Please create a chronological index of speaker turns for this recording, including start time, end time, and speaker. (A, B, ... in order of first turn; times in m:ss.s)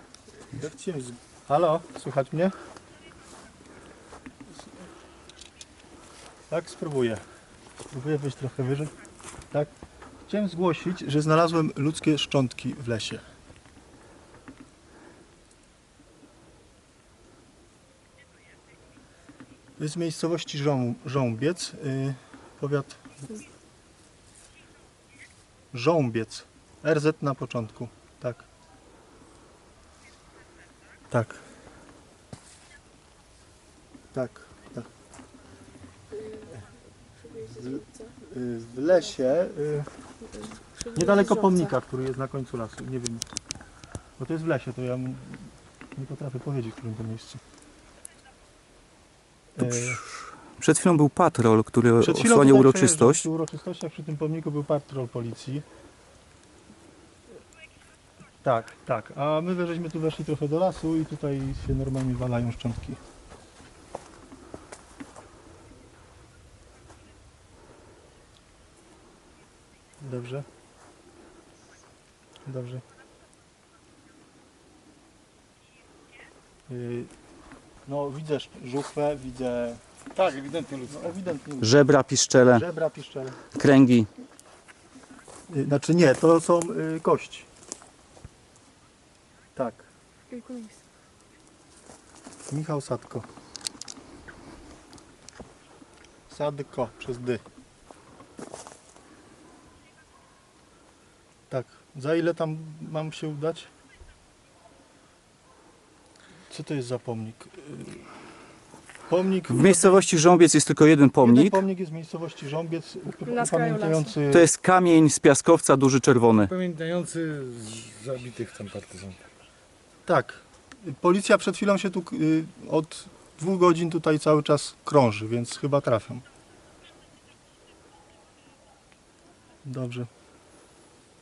0:00.5-0:02.5 A
0:06.5-0:07.2 A
0:07.9-0:08.9 A
0:10.3-0:13.2 A
0:19.8-0:23.1 A
0:25.7-0:28.5 A
0:31.1-0:31.4 A
0:34.1-0:34.9 A
0:36.2-0:36.6 B
0:37.2-0:37.9 B
0:37.5-0:39.9 A
0:40.2-0:41.7 B
0:40.9-0:43.2 A
0:44.2-0:47.4 A
0:49.6-0:50.0 A
0:49.6-0:50.1 C
0:50.6-0:53.3 C
0:52.0-0:55.6 A
0:58.4-1:03.0 A
1:10.0-1:10.5 A
1:12.5-1:12.8 A
1:16.7-1:17.1 A
1:17.9-1:19.8 A
1:20.2-1:21.1 D
1:20.8-1:21.8 A
1:21.6-1:22.6 C
1:22.4-1:23.4 A
1:23.6-1:24.1 C
1:25.5-1:27.5 A
1:29.6-1:29.9 A
1:30.3-1:30.8 B
1:32.5-1:33.3 A
1:36.3-1:37.4 A
1:41.5-1:43.7 A
1:46.5-1:48.1 A
1:49.1-1:50.1 A
1:49.5-1:51.6 C
1:51.2-1:54.5 A
1:53.3-1:54.1 B
1:54.3-1:56.5 C
1:56.5-1:59.2 D
2:00.1-2:06.2 A
2:09.6-2:10.1 A